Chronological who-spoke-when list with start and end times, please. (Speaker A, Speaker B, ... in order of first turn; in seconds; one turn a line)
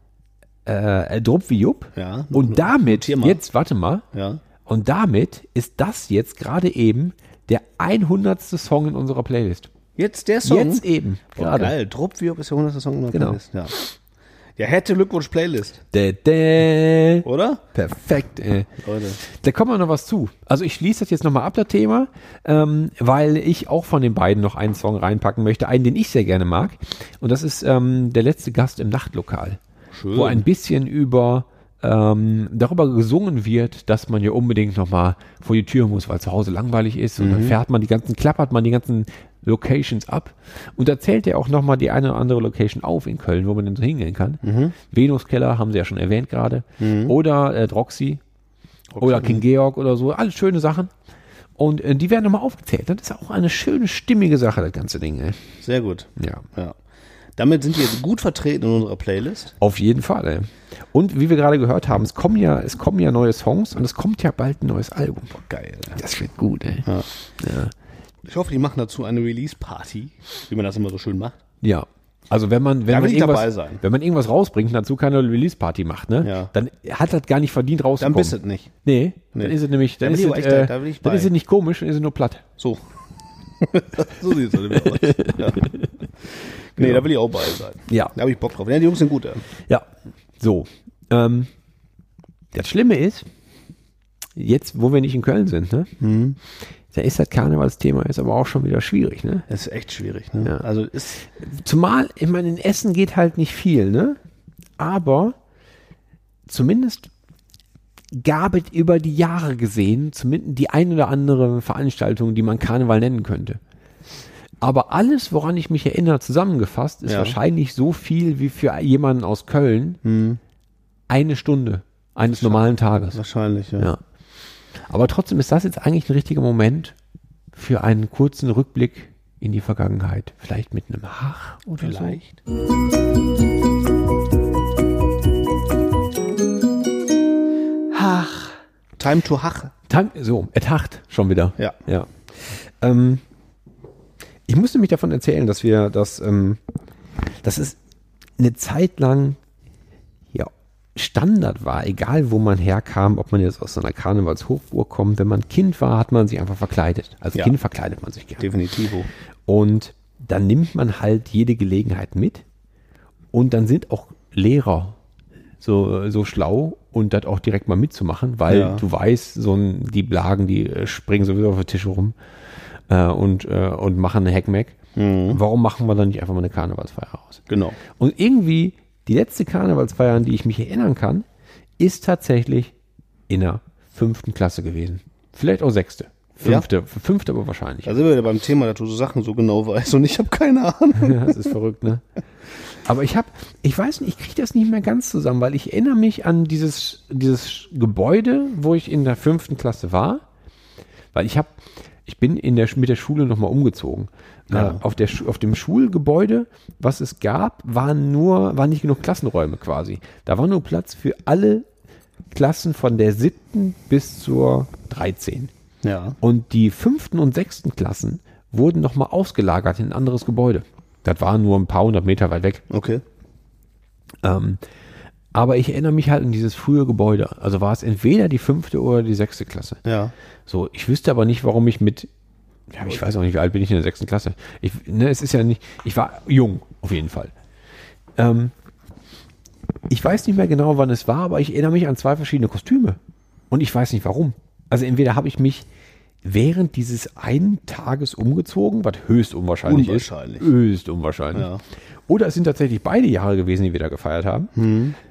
Speaker A: 0.7-4.0
Speaker B: 2.0-3.4
Speaker B: 4.1-4.4
Speaker A: 4.7-9.7
Speaker B: 10.0-13.8
Speaker A: 10.4-11.7
Speaker A: 13.1-13.9
Speaker B: 14.6-15.8
Speaker A: 15.9-29.6
Speaker B: 17.2-17.6
Speaker B: 18.8-19.2
Speaker B: 29.9-30.4
Speaker A: 30.1-48.2
Speaker B: 37.2-37.6
Speaker B: 44.4-44.8
Speaker B: 46.8-47.2
Speaker B: 48.9-49.4
Speaker A: 49.0-50.9
Speaker A: 51.6-55.4
Speaker B: 55.6-56.8
Speaker A: 56.2-56.4
Speaker B: 57.4-59.5
Speaker A: 59.6-65.4
Speaker B: 65.5-66.0
Speaker A: 66.0-67.7
Speaker B: 68.3-71.4
Speaker A: 71.6-82.5
Speaker B: 72.9-73.8
Speaker B: 76.2-76.5
Speaker B: 78.0-78.7
Speaker B: 79.3-81.3
Speaker B: 83.6-85.7
Speaker A: 84.7-85.9
Speaker B: 86.8-89.5
Speaker A: 86.8-87.0
Speaker A: 87.9-88.1
Speaker A: 90.4-91.5
Speaker A: 92.5-93.3
Speaker A: 94.4-95.9
Speaker B: 96.0-96.4
Speaker A: 96.9-99.5
Speaker B: 99.5-101.2
Speaker A: 101.2-104.2
Speaker A: 104.8-105.4
Speaker A: 106.5-107.1
Speaker A: 108.1-113.6
Speaker A: 114.6-120.0
Speaker B: 117.1-117.4
Speaker B: 120.0-120.4
Speaker A: 121.1-123.2
Speaker B: 122.3-123.9
Speaker A: 124.8-127.0
Speaker A: 127.5-132.2
Speaker B: 131.7-132.4
Speaker A: 137.9-138.5
Speaker B: 139.0-139.7
Speaker A: 139.9-143.2
Speaker A: 144.5-146.6
Speaker A: 147.4-147.8
Speaker A: 148.4-149.4
Speaker A: 150.3-158.5
Speaker B: 158.4-159.1
Speaker A: 159.5-162.4
Speaker A: 163.3-165.0
Speaker A: 165.6-172.2
Speaker B: 168.5-168.8
Speaker A: 172.9-174.8
Speaker B: 175.0-175.4
Speaker A: 175.3-181.3
Speaker B: 177.5-177.8
Speaker A: 181.8-182.7
Speaker A: 183.3-188.0
Speaker B: 186.4-186.7
Speaker B: 187.8-191.4
Speaker A: 191.0-192.0
Speaker A: 192.8-200.2
Speaker A: 201.1-211.7
Speaker B: 204.5-204.8
Speaker A: 212.3-215.5
Speaker B: 215.8-216.2
Speaker A: 216.2-222.7
Speaker B: 222.7-223.0
Speaker A: 224.2-224.6
Speaker A: 225.3-229.8
Speaker B: 229.8-230.1
Speaker A: 230.5-232.1
Speaker A: 232.7-237.3
Speaker A: 238.2-238.5
Speaker A: 239.9-243.0
Speaker A: 243.5-245.7
Speaker A: 246.2-251.5
Speaker B: 249.7-250.5
Speaker B: 251.3-251.6
Speaker A: 252.1-254.5
Speaker B: 254.6-255.0